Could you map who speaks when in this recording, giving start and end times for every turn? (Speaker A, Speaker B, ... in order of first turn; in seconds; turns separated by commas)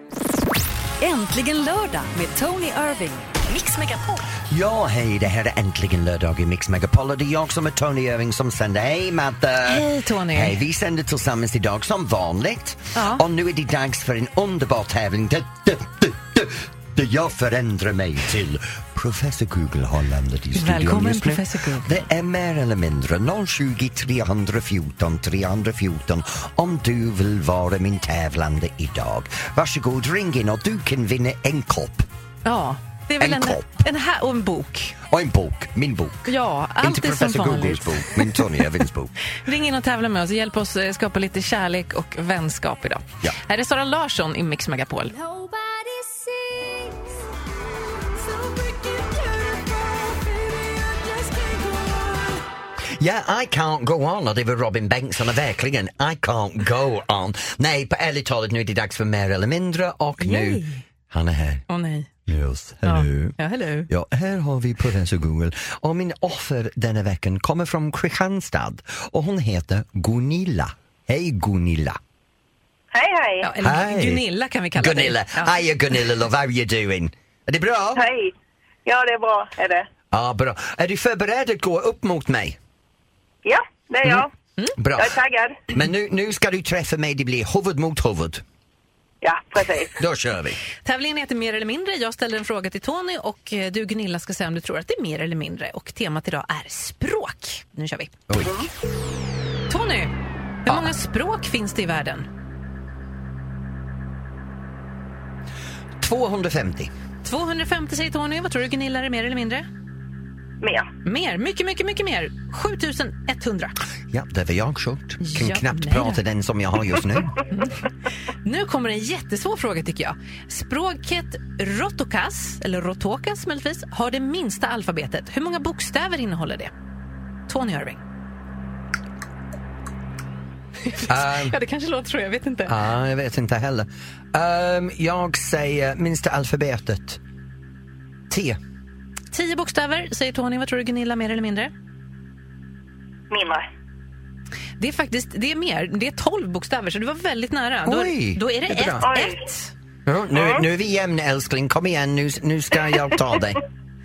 Speaker A: 1.0-4.2, Speaker B: 4.5-32.1, Speaker C: 9.6-10.6, Speaker C: 12.9-13.2, Speaker C: 20.6-22.1, Speaker C: 32.4-35.0, Speaker B: 33.2-33.6, Speaker B: 35.1-39.1, Speaker C: 36.3-38.5, Speaker C: 39.4-45.2, Speaker D: 45.2-47.0, Speaker D: 48.2-52.4, Speaker B: 53.0-61.6, Speaker C: 60.2-60.8, Speaker C: 61.7-62.1, Speaker B: 62.3-63.4, Speaker C: 62.8-63.9, Speaker B: 63.9-72.0, Speaker E: 72.9-73.5, Speaker C: 73.4-75.6, Speaker B: 73.6-78.0, Speaker E: 78.0-78.3, Speaker E: 78.9-79.9, Speaker B: 80.1-82.6, Speaker E: 83.4-84.3, Speaker B: 84.8-88.4, Speaker E: 85.0-85.6, Speaker E: 89.2-90.0, Speaker B: 90.0-90.6, Speaker C: 90.8-98.2, Speaker B: 98.3-98.6, Speaker C: 99.7-100.1, Speaker C: 100.7-102.3, Speaker B: 106.0-106.9, Speaker C: 107.2-109.7, Speaker E: 110.6-110.9, Speaker C: 111.0-113.8, Speaker B: 114.1-117.4, Speaker C: 115.2-116.2, Speaker C: 117.5-117.8, Speaker C: 118.4-126.7, Speaker C: 127.5-128.0, Speaker C: 130.8-132.8, Speaker B: 131.1-131.6, Speaker B: 132.7-137.2, Speaker B: 138.3-138.6, Speaker C: 139.3-141.7, Speaker E: 143.3-143.7, Speaker C: 144.8-149.7, Speaker B: 147.9-149.1, Speaker E: 149.0-149.4, Speaker B: 150.1-153.6